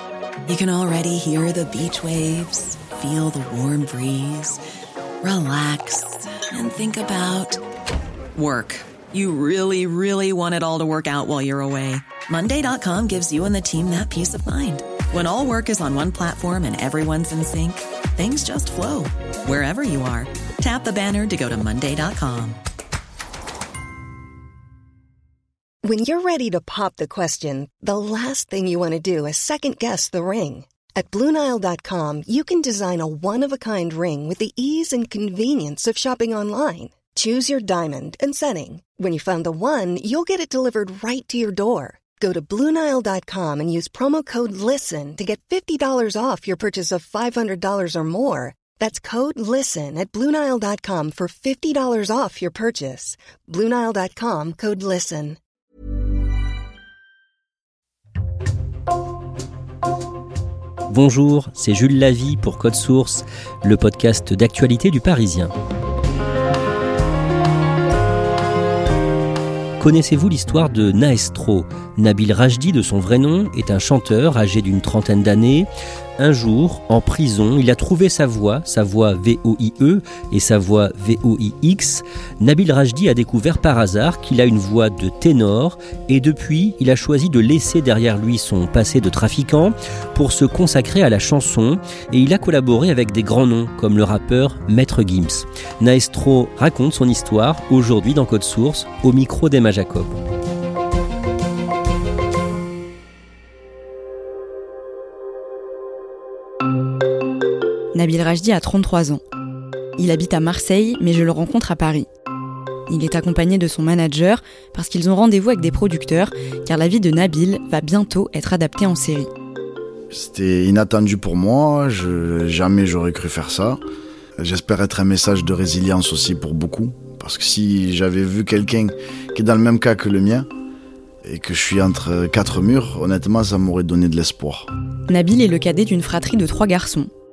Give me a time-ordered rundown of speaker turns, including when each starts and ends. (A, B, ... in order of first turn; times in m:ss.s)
0:00.4-0:04.6 A
0:05.2-0:07.6 A
0:08.3-0:22.6 A
0:25.8-0:55.3 B
1:00.9-1:05.5 C
1:09.8-1:15.7 C
1:16.2-1:40.1 C
1:47.9-1:49.2 D
1:50.0-1:52.1 D
1:52.9-1:59.3 D
2:00.1-2:03.8 E
2:04.4-2:10.5 E
2:11.2-2:14.7 E
2:15.1-2:17.1 D